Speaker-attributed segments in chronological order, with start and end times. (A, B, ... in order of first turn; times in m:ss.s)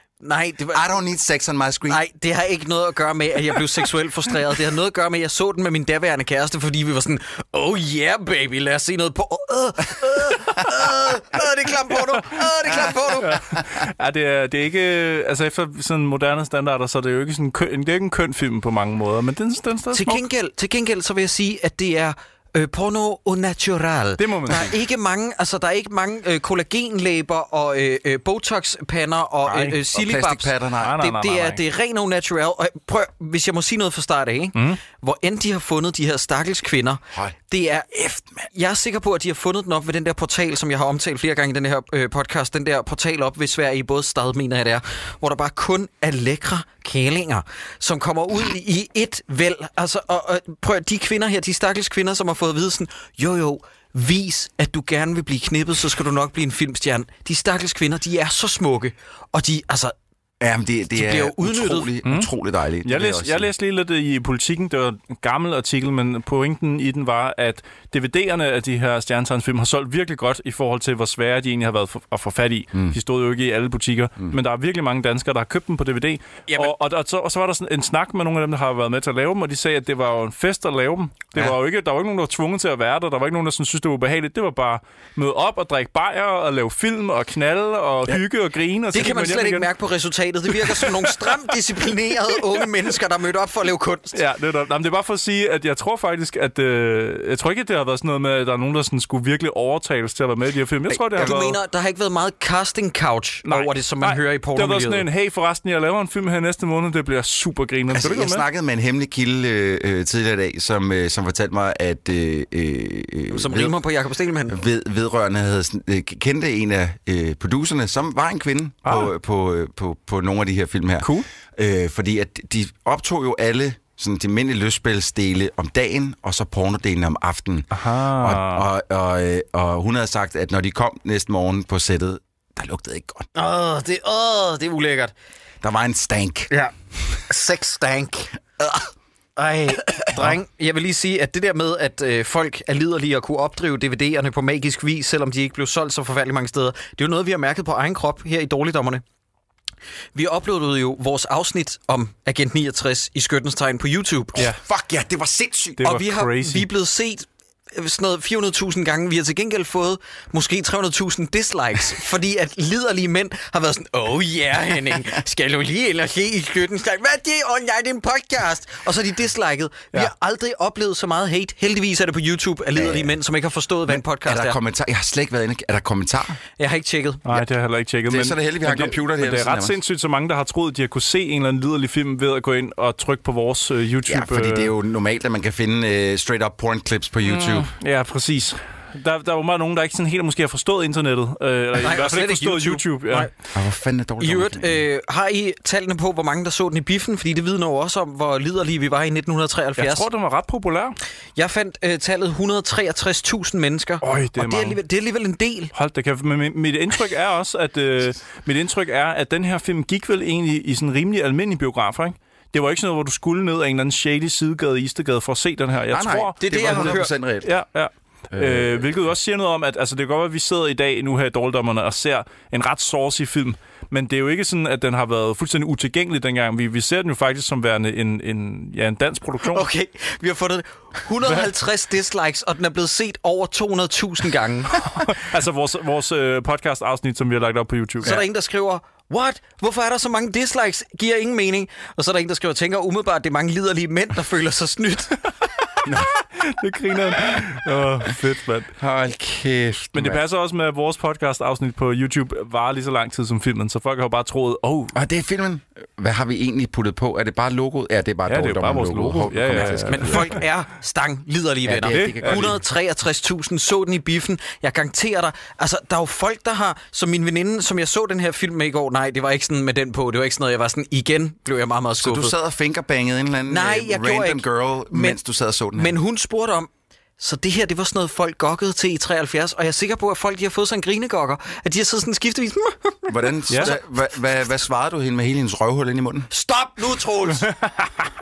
0:00.2-0:00.8 A
0:00.7-0:02.0 B
0:01.9-0:13.4 A
0:13.2-0:20.2 C
0:19.9-0:59.9 A
0:24.2-0:24.8 C
0:29.5-0:31.0 B
0:30.8-0:31.6 C
0:38.0-0:38.5 B
1:00.4-1:03.5 B
1:00.9-1:01.9 A
1:02.0-1:02.3 C
1:02.8-1:29.7 C
1:28.9-1:34.2 A
1:30.6-1:30.9 C
1:34.1-1:41.6 C
1:40.9-1:41.3 B
1:41.2-1:45.0 A
1:43.4-1:48.4 C
1:47.9-1:53.8 B
1:53.3-1:54.6 A
1:54.5-2:13.3 B
1:58.8-1:59.1 C
2:01.0-2:01.3 C
2:07.7-2:08.6 C
2:13.3-2:15.1 A
2:15.6-2:16.5 B
2:17.3-2:18.3 A
2:18.6-2:18.9 B
2:19.4-2:29.0 A
2:30.1-2:34.4 A
2:34.4-2:35.9 B
2:35.8-2:36.7 C
2:35.8-2:54.6 A
2:52.7-2:53.1 B
2:53.9-2:56.4 B
2:56.6-2:57.2 A
2:57.2-3:04.7 C
2:58.1-2:59.8 B
3:04.0-3:07.7 B
3:07.2-3:13.3 C
3:11.8-3:13.3 A
3:13.5-3:14.8 B
3:14.2-3:20.1 A
3:19.8-3:21.0 C
3:21.4-3:25.7 A
3:24.0-3:24.8 C
3:25.7-3:49.7 C
3:35.9-3:37.5 B
3:36.4-3:37.1 A
3:38.3-3:38.8 B
3:49.4-3:54.8 A
3:54.8-3:58.2 C
3:58.0-4:05.2 A
4:05.8-4:06.1 B
4:06.4-4:08.7 C
4:08.8-4:10.2 B
4:09.9-4:15.0 C
4:14.9-4:20.4 B
4:18.3-4:20.4 C
4:19.9-4:32.3 A
4:21.6-4:22.6 B
4:21.8-4:22.5 C
4:32.0-4:35.9 B
4:33.4-4:35.2 A
4:35.7-4:43.8 A
4:43.1-4:46.3 B
4:46.3-4:47.5 A